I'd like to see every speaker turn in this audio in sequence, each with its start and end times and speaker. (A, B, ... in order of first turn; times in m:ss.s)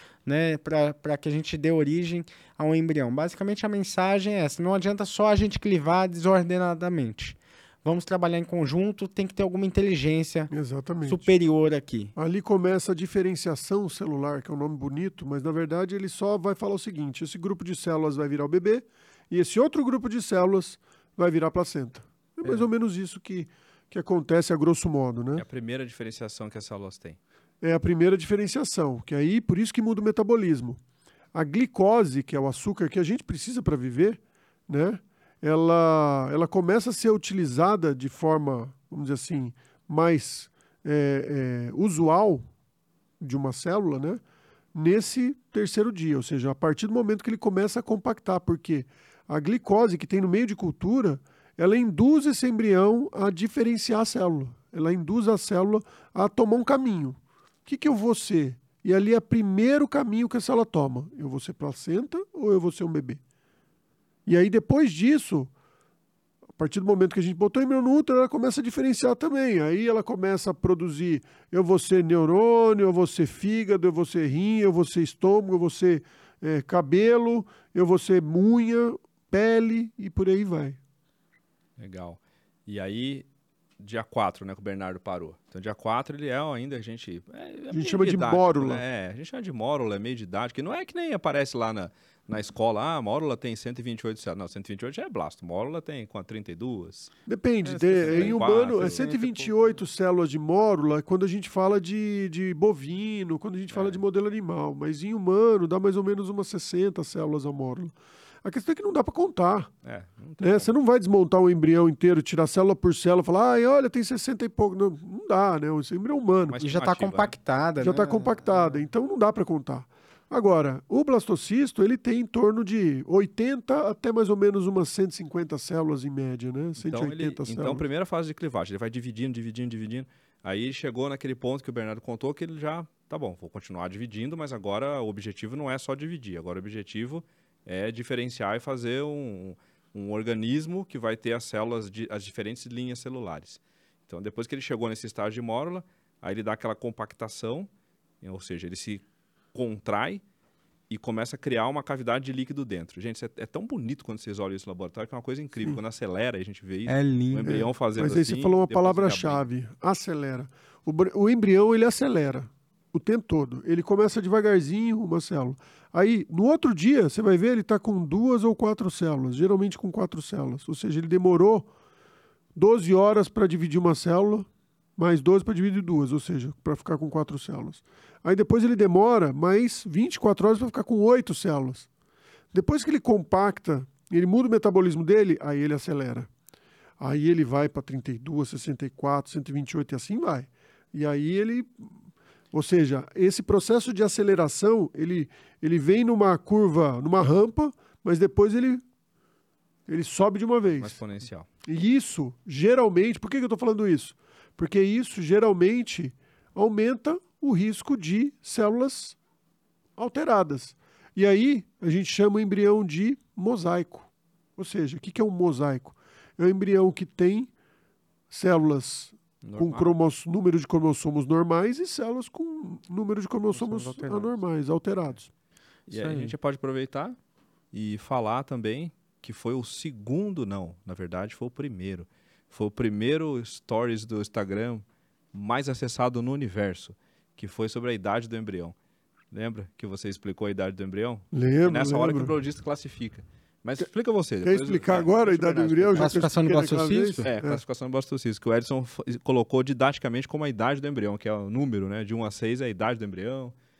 0:00.2-0:10.5 A
0:10.5-0:11.3 B
0:11.1-0:12.1 A
0:12.2-0:25.4 B
0:25.4-0:27.2 C
0:27.6-0:30.8 B
0:31.3-0:42.4 B
0:43.2-0:44.2 B
0:44.7-1:03.2 B
1:04.2-1:05.5 B
1:06.6-1:20.8 B
1:21.8-1:23.2 C
1:23.8-1:37.1 C
1:27.7-1:28.8 B
1:37.3-1:49.7 B
1:37.6-1:39.8 A
1:37.9-1:39.1 C
1:43.7-1:44.0 C
1:49.8-1:50.7 C
1:50.4-1:56.6 B
1:56.4-1:57.3 C
1:56.6-1:58.8 A
1:57.8-2:07.8 B
2:06.8-2:27.7 C
2:28.2-2:29.0 C
2:29.5-2:30.2 C
2:30.9-2:39.4 C
2:36.9-2:37.5 A
2:37.4-2:51.7 B
2:52.5-3:01.9 B
3:02.5-3:06.3 B
3:07.0-3:11.9 B
3:12.5-3:18.8 B
3:19.9-3:21.0 B
3:20.6-3:21.5 C
3:21.6-3:29.2 B
3:30.0-3:37.5 B
3:38.3-3:45.3 B
3:39.4-3:39.9 C
3:43.5-3:44.3 A
3:45.9-3:47.2 C
3:45.9-3:46.3 A
3:47.7-3:58.7 C
3:59.3-4:06.2 C
4:01.3-4:02.3 B
4:04.4-4:07.6 B
4:05.9-4:07.2 A
4:07.2-4:13.5 C